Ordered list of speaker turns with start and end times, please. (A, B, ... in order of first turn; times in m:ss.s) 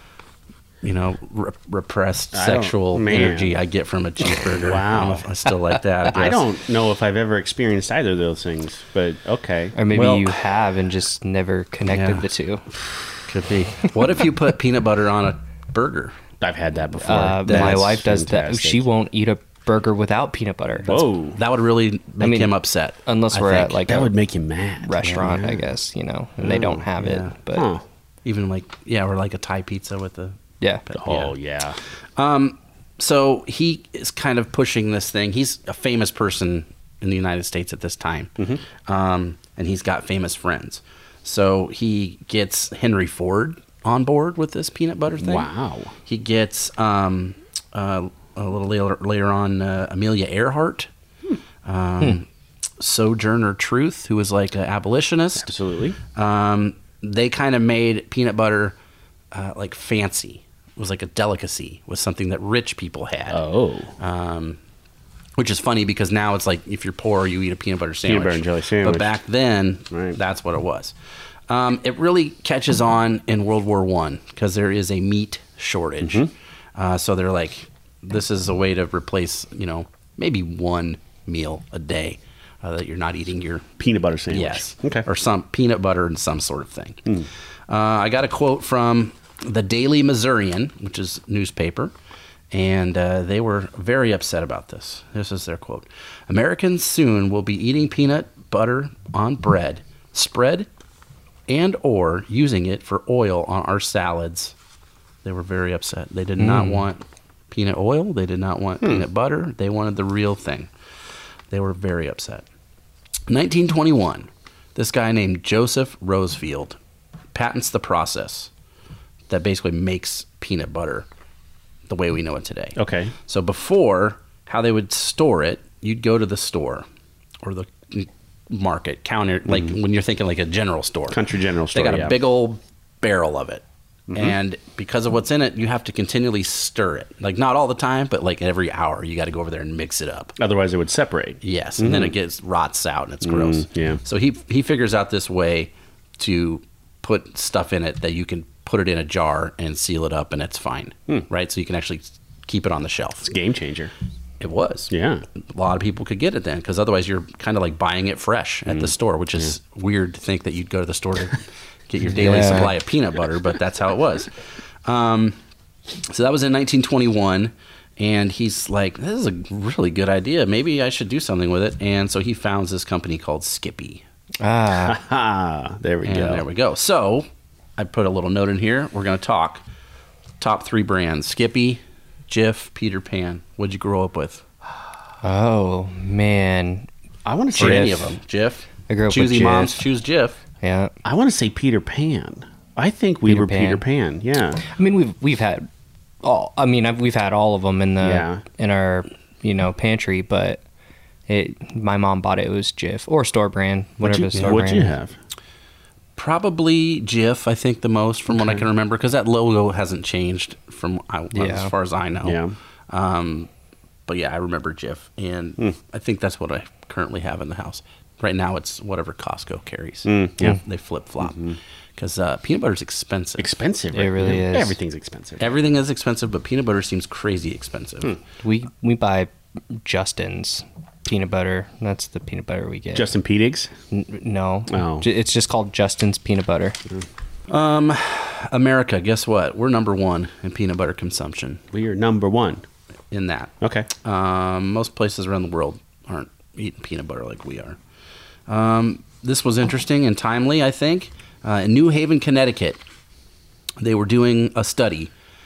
0:00.8-0:06.4 A
0:02.3-0:03.6 B
0:04.6-0:05.2 B
0:06.1-0:09.8 B
0:09.8-0:12.7 C
0:09.9-0:10.4 A
0:11.9-0:12.3 A
0:13.3-0:16.2 A
0:16.4-0:18.8 B
0:17.0-0:20.9 C
0:17.4-0:17.8 A
0:20.8-0:21.4 B
0:20.9-0:23.9 A
0:22.2-0:22.5 C
0:23.0-0:24.1 C
0:23.9-0:25.7 B
0:24.8-0:27.7 C
0:26.4-0:26.9 B
0:27.0-0:27.4 A
0:27.5-0:27.8 B
0:28.2-0:31.4 A
0:31.0-0:31.8 B
0:32.2-0:45.5 A
0:45.2-0:45.9 B
0:46.0-0:50.9 A
0:51.6-0:52.3 A
0:52.8-0:55.5 A
0:55.4-0:56.0 B
0:56.1-0:58.8 A
0:59.3-1:03.4 A
1:03.3-1:03.9 B
1:04.0-1:04.6 A
1:05.4-1:10.9 A
1:08.0-1:09.1 B
1:09.9-1:10.2 B
1:11.5-1:23.7 A
1:16.0-1:16.3 B
1:23.8-1:25.0 B
1:24.3-1:31.9 A
1:32.5-1:40.7 A
1:41.5-1:44.5 A
1:45.2-1:50.7 A
1:46.4-1:46.9 C
1:51.5-1:52.4 A
1:53.3-1:56.8 A
1:57.3-1:58.5 A
1:59.3-2:01.1 A
2:01.9-2:06.9 A
2:02.8-2:03.1 B
2:07.4-2:11.2 A
2:11.1-2:12.2 B
2:11.7-2:20.4 A
2:14.1-2:14.4 B
2:20.4-2:22.2 B
2:21.4-2:33.3 A
2:23.2-2:24.0 B
2:33.2-2:33.9 B
2:34.4-2:45.4 A
2:34.9-2:35.2 B
2:38.7-2:39.5 B
2:42.1-2:42.7 C
2:46.1-2:54.0 A
2:54.4-2:55.0 C
2:54.8-2:56.4 B
2:56.0-2:59.6 A
3:00.4-3:04.4 A
3:05.2-3:06.9 C
3:07.2-3:08.0 B
3:07.6-3:08.1 C
3:07.6-3:10.4 A
3:08.9-3:09.8 C
3:10.6-3:10.9 C
3:11.0-3:14.6 B
3:13.3-3:13.8 C
3:14.6-3:15.7 C
3:16.2-3:20.6 C
3:18.0-3:18.4 B
3:21.3-3:24.9 C
3:24.0-3:25.2 B
3:24.3-3:24.6 A
3:26.2-3:33.5 A
3:28.3-3:28.6 B
3:31.3-3:31.7 C
3:32.2-3:32.6 B
3:34.1-3:43.5 A
3:40.0-3:40.6 B
3:41.2-3:41.6 B
3:43.4-3:45.5 B
3:43.9-3:44.8 C
3:45.4-3:48.2 A
3:48.4-3:53.1 C
3:52.9-3:53.7 B
3:53.9-3:56.8 C
3:54.7-3:55.1 B
3:57.5-4:01.6 A
4:01.7-4:02.6 B
4:03.1-4:07.8 A
4:03.6-4:03.9 B
4:08.5-4:12.8 A
4:13.8-4:15.1 A